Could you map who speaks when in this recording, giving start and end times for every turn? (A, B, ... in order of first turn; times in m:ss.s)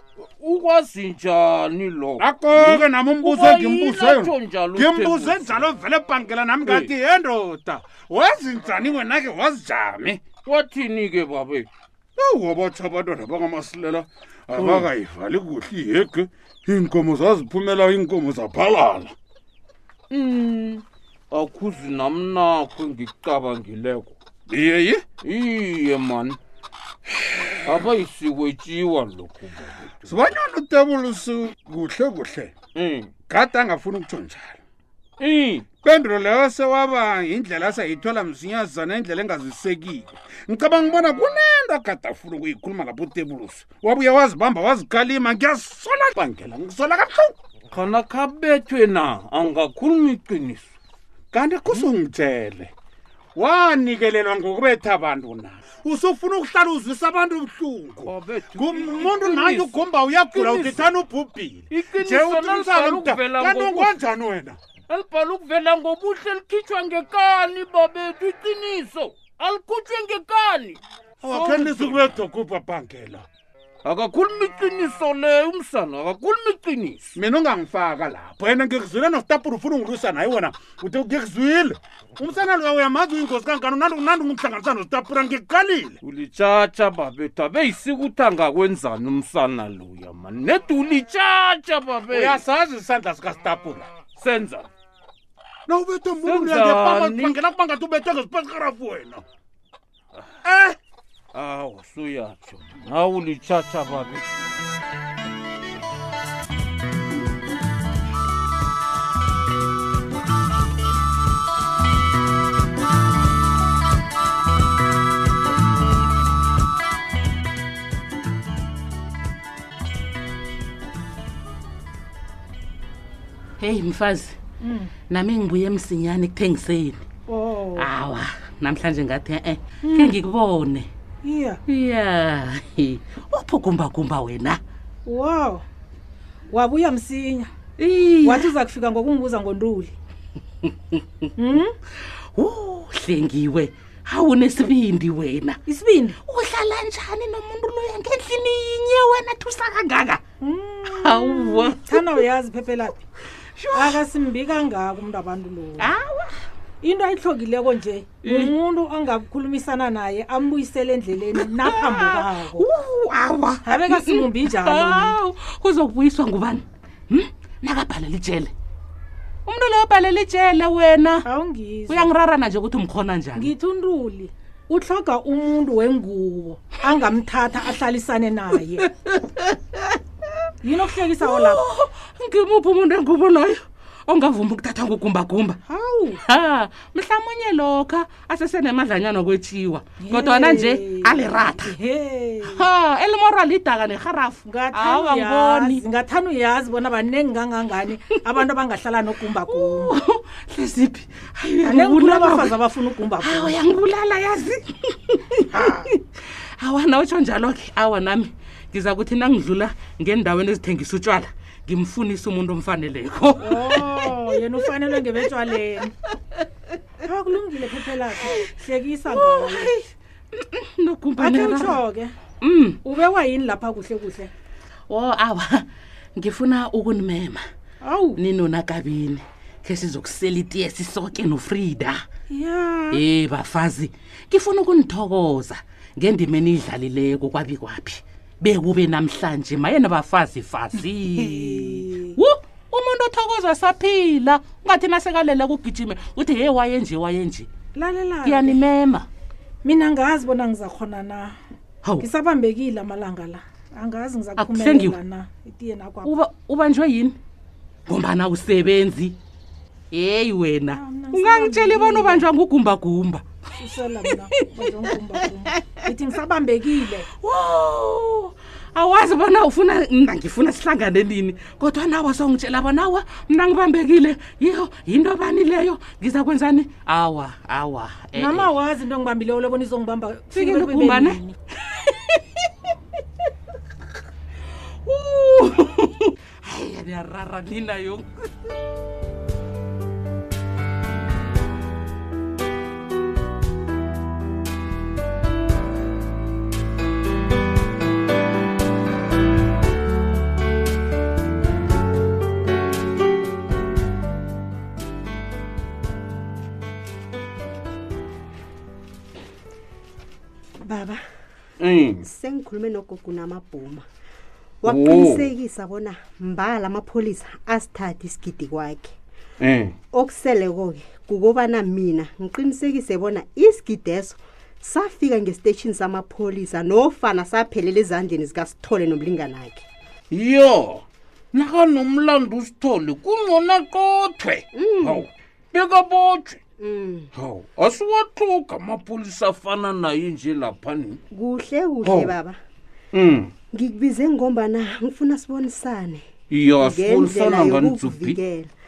0:00.2-0:05.7 A
0:02.2-0:10.3 B
0:10.4-0:11.7 A
0:12.2-0:19.2 B
0:14.5-0:14.9 A
0:20.1-0:24.2 A
0:24.5-0:25.0 B
0:25.2-0:26.4 A
0:27.3-0:27.9 B
0:27.7-0:30.2 A
0:30.1-0:32.5 B
0:32.8-0:33.1 A
0:33.3-0:34.6 B
0:35.2-0:35.7 A
0:35.8-0:47.3 B
0:47.7-0:50.7 A
0:51.3-0:52.7 B
0:53.4-1:04.6 B
0:58.1-1:00.9 A
1:01.7-1:04.0 A
1:04.9-1:12.1 A
1:11.2-1:13.3 B
1:13.8-1:17.1 A
1:17.2-1:26.0 B
1:26.0-1:32.4 A
1:32.1-1:33.9 B
1:34.2-1:34.7 A
1:35.7-1:39.2 B
1:36.2-1:37.4 A
1:40.4-1:40.8 B
1:41.3-1:44.3 A
2:03.6-2:04.4 C
2:04.6-2:04.9 D
2:05.1-2:07.0 C
2:07.3-2:07.9 D
2:07.8-2:10.9 C
2:09.8-2:10.2 D
2:11.2-2:11.6 D
2:11.7-2:14.6 C
2:15.0-2:15.6 D
2:16.5-2:17.5 D
2:17.8-2:18.5 C
2:18.2-2:19.9 D
2:21.4-2:21.8 D
2:22.4-2:25.6 C
2:25.7-2:26.2 D
2:26.3-2:30.2 C
2:30.4-2:33.0 D
2:30.9-2:32.2 C
2:33.6-2:34.0 C
2:33.7-2:35.9 D
2:35.8-2:36.4 C
2:36.8-2:42.6 D
2:38.2-2:38.5 C
2:41.4-2:48.5 C
2:43.6-2:45.2 D
2:49.5-2:51.2 C
2:51.2-2:52.1 D
2:51.9-2:53.5 C
2:53.4-2:58.8 D
2:59.0-2:59.9 C
3:00.6-3:01.6 D
3:01.2-3:05.6 C
3:05.7-3:06.2 D
3:06.1-3:11.8 C
3:10.0-3:12.6 D
3:12.4-3:15.8 C
3:14.4-3:19.9 D
3:19.5-3:22.6 C
3:21.6-3:23.6 D
3:23.2-3:26.0 C
3:26.6-3:34.2 C
3:33.4-3:35.9 D
3:37.0-3:39.7 D
3:39.1-3:41.8 C
3:41.2-3:42.2 D
3:42.4-3:42.8 C
3:42.8-3:44.3 D
3:44.9-3:45.6 C
3:46.2-3:47.4 C
3:47.8-3:48.2 D
3:48.2-3:52.0 C
3:52.3-3:53.0 D
3:52.9-4:07.5 C
4:01.2-4:02.2 D
4:07.8-4:08.6 D
4:08.2-4:09.1 C
4:09.6-4:11.4 D
4:12.0-4:16.1 D
4:14.4-4:15.0 C
4:16.0-4:17.2 C
4:17.9-4:19.2 C
4:19.9-4:23.2 C
4:20.7-4:22.3 D
4:23.6-4:27.1 D
4:27.2-4:38.5 C
4:38.1-4:41.4 D
4:40.3-4:42.5 C
4:44.8-4:48.3 C
5:10.6-5:11.0 E
5:11.6-5:12.0 A
5:12.0-5:13.8 E
5:14.6-5:19.0 E
5:14.7-5:15.3 A
5:19.4-5:19.8 A
5:19.9-5:29.7 E
5:30.1-5:36.4 A
5:34.5-5:35.0 E
5:36.6-5:37.1 E
5:37.1-5:41.0 A
5:41.1-5:42.4 E
5:41.8-5:42.1 A
5:42.9-5:43.3 A
5:43.5-5:46.0 E
5:46.3-5:48.2 A
5:46.6-5:48.5 E